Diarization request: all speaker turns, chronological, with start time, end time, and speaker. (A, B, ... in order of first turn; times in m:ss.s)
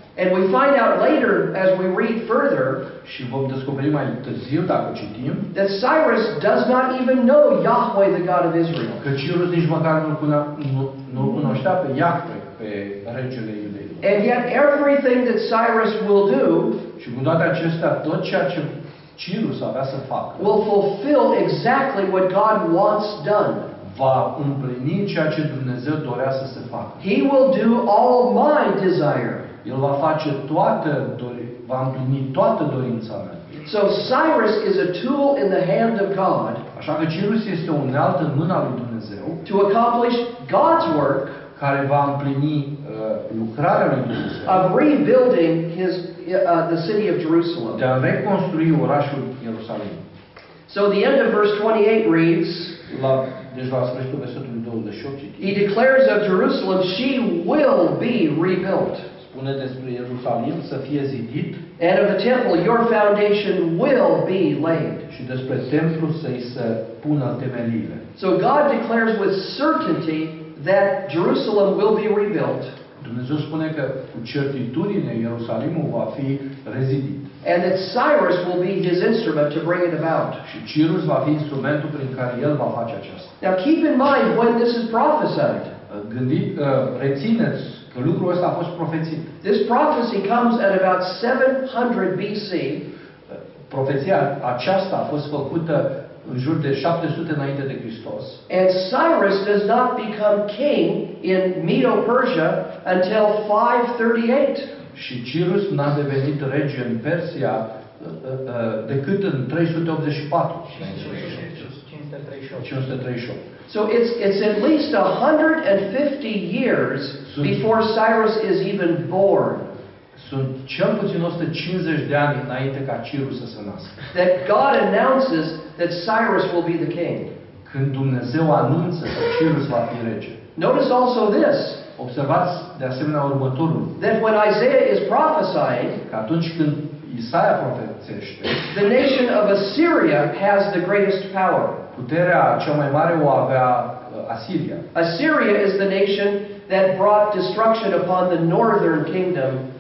0:00.2-0:02.9 A
0:03.0-0:05.5 B
0:05.5-0:09.0 A
0:09.0-0:14.1 B
0:14.0-0:16.8 A
0:17.0-0:20.5 B
0:20.4-0:23.7 A
0:23.8-0:27.0 B
0:27.0-0:29.5 A
0:29.6-0:33.6 B
0:33.6-0:36.6 A
0:36.7-0:39.4 B
0:39.5-0:41.4 A
0:41.5-0:44.7 B
0:44.5-0:47.8 A
0:47.7-0:50.0 B
0:50.7-0:52.8 A
0:52.8-0:55.6 B
0:55.4-0:59.1 A
0:59.2-1:01.6 B
1:01.8-1:05.0 A
1:05.1-1:08.0 B
1:08.2-1:12.7 A
1:13.0-1:17.3 B
1:17.4-1:20.4 A
1:20.4-1:23.3 B
1:23.4-1:25.7 A
1:25.9-1:29.3 B
1:29.4-1:32.8 A
1:33.3-1:38.4 B
1:38.5-1:44.7 A
1:44.9-1:51.4 B
1:50.8-1:52.7 C
1:52.6-1:53.4 B
1:53.7-1:59.7 A
1:57.3-1:57.6 B
2:00.2-2:04.0 B
2:04.1-2:07.3 A
2:07.6-2:10.4 B
2:10.6-2:11.8 A
2:12.0-2:14.0 B
2:14.0-2:16.0 A
2:16.1-2:18.7 B
2:18.7-2:21.8 A
2:21.9-2:24.8 B
2:25.0-2:29.6 A